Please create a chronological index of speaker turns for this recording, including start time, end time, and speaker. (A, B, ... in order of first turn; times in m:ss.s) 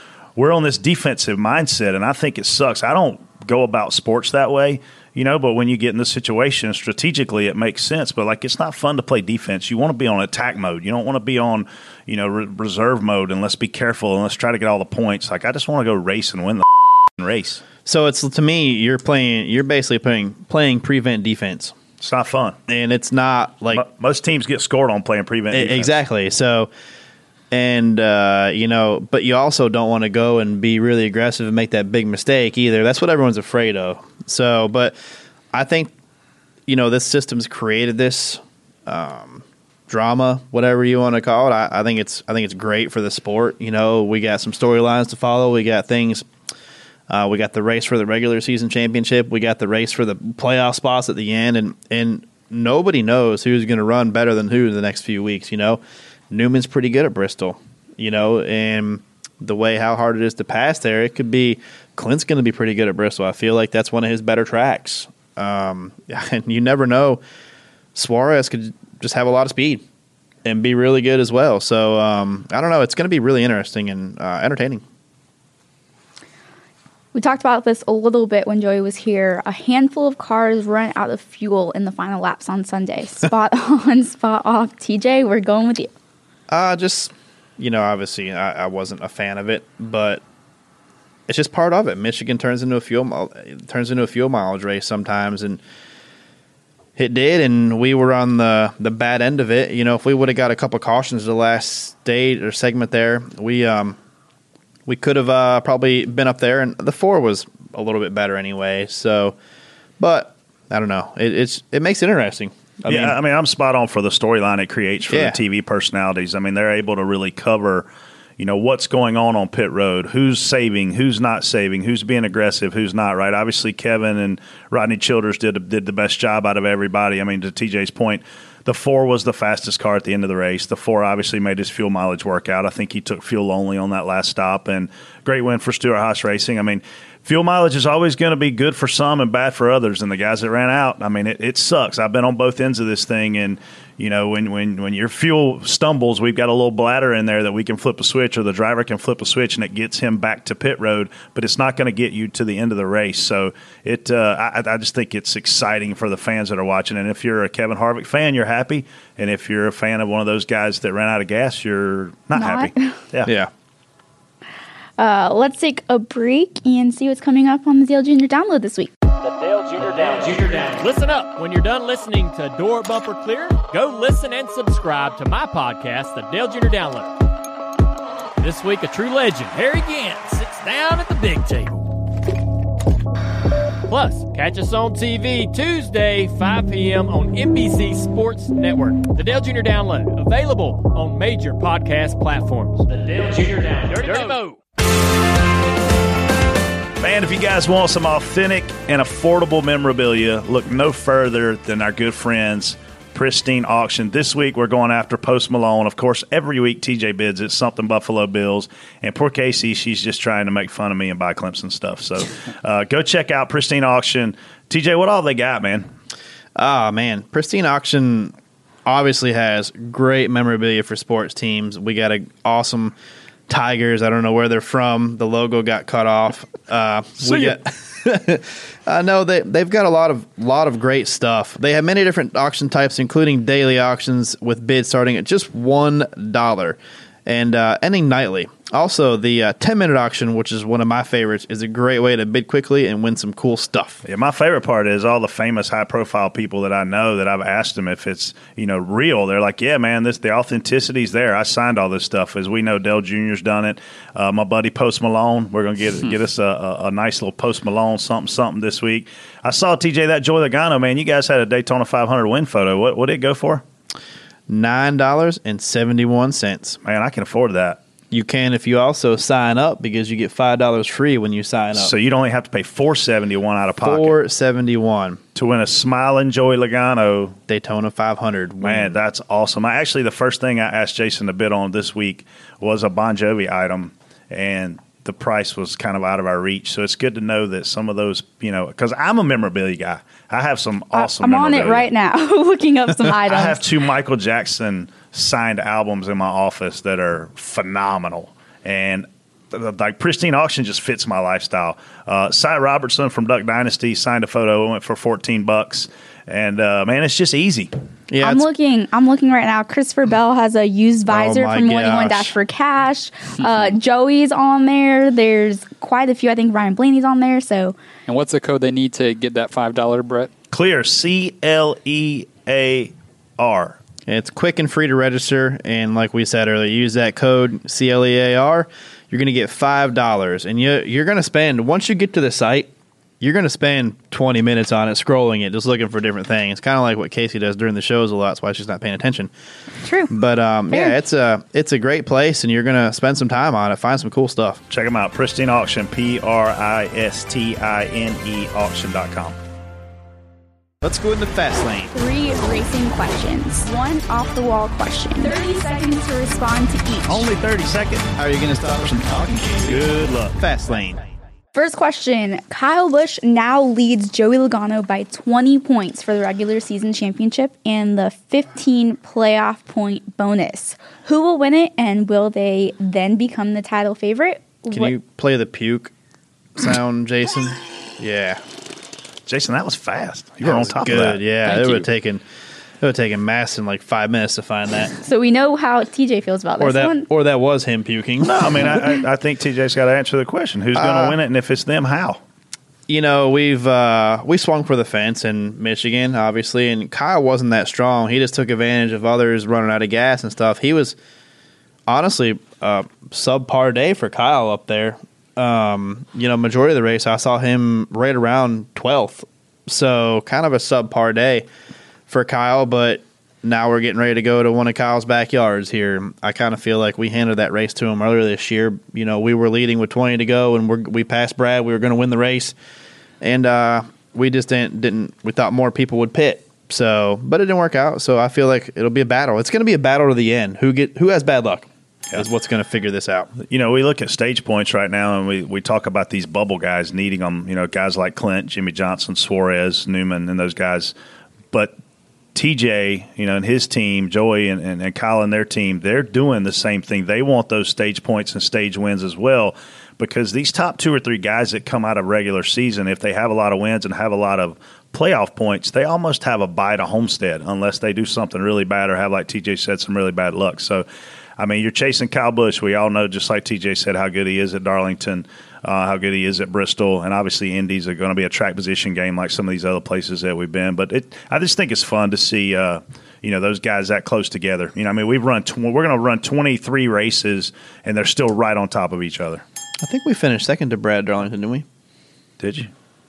0:00.4-0:16.6 A
0:17.2-0:17.6 A
0:17.8-0:21.7 B
0:22.0-0:22.6 A
0:22.7-0:23.8 B
0:23.7-0:26.0 A
0:25.5-0:26.7 B
0:27.5-0:34.9 B
0:35.5-0:35.9 B
0:36.7-0:46.3 B
0:47.1-1:07.2 B
1:07.9-1:09.8 B
1:10.4-1:14.8 B
1:17.1-1:25.9 C
1:26.5-1:30.2 B
1:31.3-1:35.6 B
1:37.0-1:44.0 B
1:44.9-1:49.4 B
1:50.0-1:53.2 B
1:52.9-2:43.3 A
1:55.1-1:55.4 B
2:42.3-2:42.9 C
2:43.2-2:43.5 B
2:45.0-2:48.9 C
2:49.2-2:57.1 D
2:58.4-3:01.9 D
3:03.9-3:14.6 D
3:17.0-3:35.9 A
3:36.6-3:38.3 B
3:38.8-3:42.9 B
3:43.5-4:04.0 B
3:47.2-3:47.5 A
4:04.0-4:23.6 A
4:24.5-4:26.8 B
4:26.8-4:27.8 A
4:28.1-4:31.9 B
4:31.7-4:34.2 A
4:33.8-4:35.2 B
4:35.3-4:37.4 A
4:37.5-4:39.0 B
4:38.6-4:51.9 A
4:50.9-4:53.6 C
4:53.1-5:07.7 A
5:08.1-5:08.5 B
5:08.2-5:17.8 C
5:11.1-5:12.3 B
5:18.1-5:20.3 E
5:20.5-5:23.8 A
5:24.1-5:39.3 B
5:39.8-5:40.1 C
5:40.1-5:44.6 B
5:44.7-5:49.4 A
5:50.8-5:51.9 B
5:51.9-5:57.3 C
5:57.1-5:58.1 A
5:58.2-6:01.0 B
5:59.6-6:00.3 A
6:01.5-6:14.9 C
6:14.7-6:15.9 B
6:16.6-6:18.4 B
6:19.3-6:21.2 A
6:20.4-6:22.2 B
6:21.4-6:21.8 E
6:22.8-6:24.9 B
6:25.0-6:27.0 C
6:26.6-6:28.9 B
6:28.2-6:32.2 A
6:30.7-6:31.2 B
6:32.9-6:41.0 B
6:41.9-6:51.5 B
6:52.1-7:02.5 B
7:03.2-7:13.3 B
7:13.4-7:20.9 A
7:22.3-7:40.8 A
7:41.4-7:59.4 A
7:59.8-8:01.6 B
8:02.4-8:02.7 A